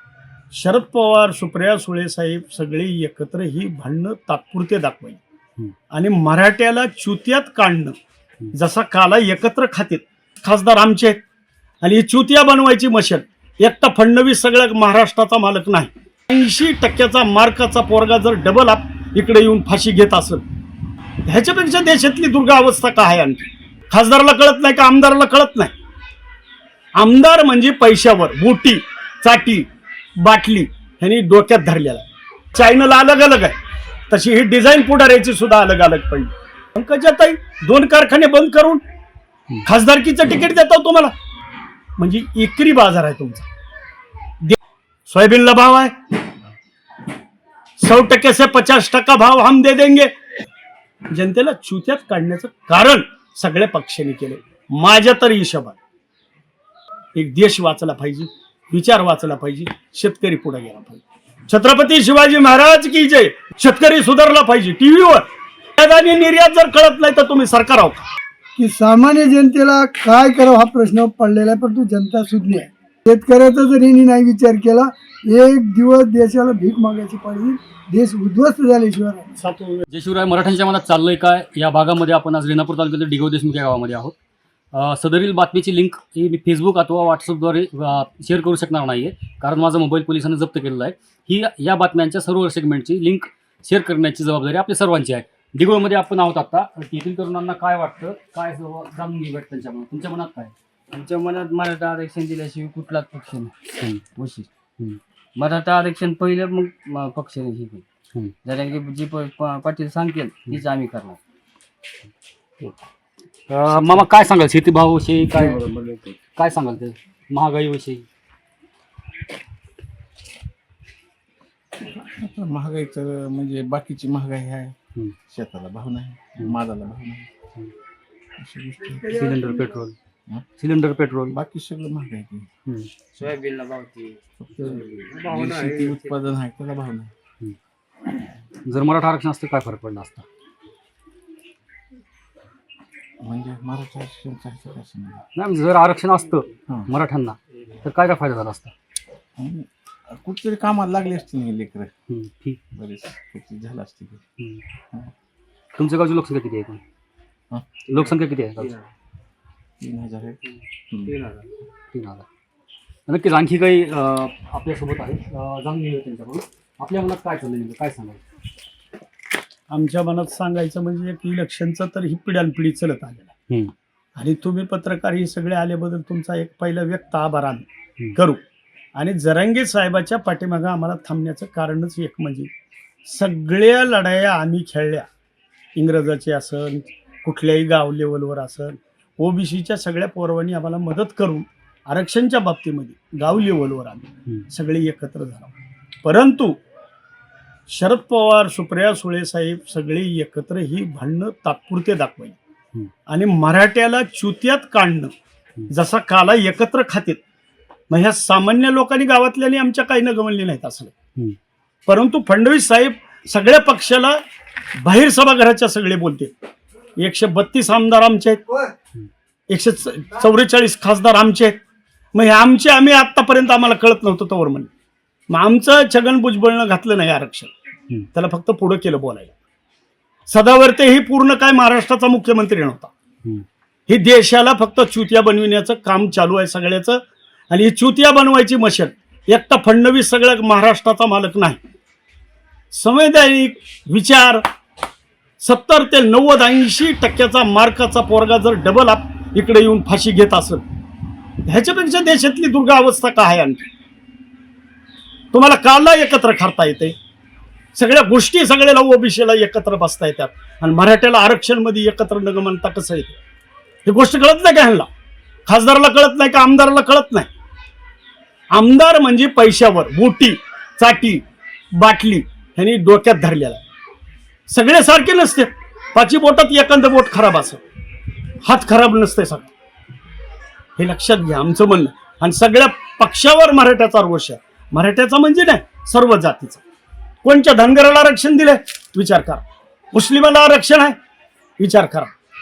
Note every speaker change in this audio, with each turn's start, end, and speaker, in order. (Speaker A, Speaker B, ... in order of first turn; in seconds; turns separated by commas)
Speaker A: 0.5-5.2, Speaker A: 5.9-8.0, Speaker A: 8.5-11.2, Speaker A: 11.8-20.4, Speaker A: 21.2-25.7, Speaker A: 26.9-33.6, Speaker A: 34.1-38.8, Speaker A: 39.6-41.1, Speaker A: 42.0-43.5, Speaker A: 45.1-45.9, Speaker A: 47.8-50.1, Speaker A: 51.1-55.8, Speaker A: 57.1-68.1, Speaker B: 68.5-79.3, Speaker A: 79.4-79.8, Speaker C: 79.9-84.2, Speaker C: 84.7-100.5, Speaker D: 100.9-104.5, Speaker C: 103.8-104.0, Speaker D: 105.3-107.8, Speaker D: 108.4-111.2, Speaker C: 113.5-115.6, Speaker D: 115.4-116.2, Speaker C: 116.3-118.0, Speaker E: 121.8-124.8, Speaker E: 125.3-127.3, Speaker E: 128.4-129.2, Speaker B: 128.9-129.8, Speaker C: 129.1-129.9, Speaker C: 130.6-131.3, Speaker E: 131.3-132.5, Speaker C: 132.7-132.9, Speaker D: 133.1-136.1, Speaker E: 134.4-137.1, Speaker C: 138.6-140.2, Speaker E: 143.2-145.2, Speaker C: 145.3-148.7, Speaker E: 149.3-151.9, Speaker C: 152.1-152.6, Speaker E: 152.7-154.2, Speaker C: 155.8-156.8, Speaker C: 157.8-158.7, Speaker E: 159.8-161.2, Speaker D: 161.1-161.5, Speaker C: 161.9-162.2, Speaker C: 163.1-168.2, Speaker A: 169.7-173.3, Speaker A: 174.2-178.4, Speaker A: 178.9-182.5, Speaker A: 183.1-185.1, Speaker A: 185.7-195.5, Speaker A: 196.0-196.6, Speaker A: 197.7-202.4, Speaker A: 203.1-205.1, Speaker A: 205.7-207.2, Speaker A: 207.9-210.9, Speaker A: 211.9-214.2, Speaker A: 214.8-216.3, Speaker A: 217.0-218.4, Speaker A: 219.5-221.6, Speaker A: 222.1-224.7, Speaker A: 225.3-227.5, Speaker A: 228.1-229.3, Speaker A: 230.3-232.9, Speaker A: 233.9-241.6, Speaker A: 242.7-244.4, Speaker A: 245.4-250.6, Speaker A: 251.4-253.7, Speaker A: 255.3-256.9, Speaker A: 257.7-263.2, Speaker A: 263.8-264.9, Speaker A: 265.5-267.3, Speaker A: 268.5-273.6, Speaker A: 274.5-277.6, Speaker A: 278.4-279.5, Speaker A: 280.8-286.6, Speaker A: 287.2-290.9, Speaker A: 291.6-292.1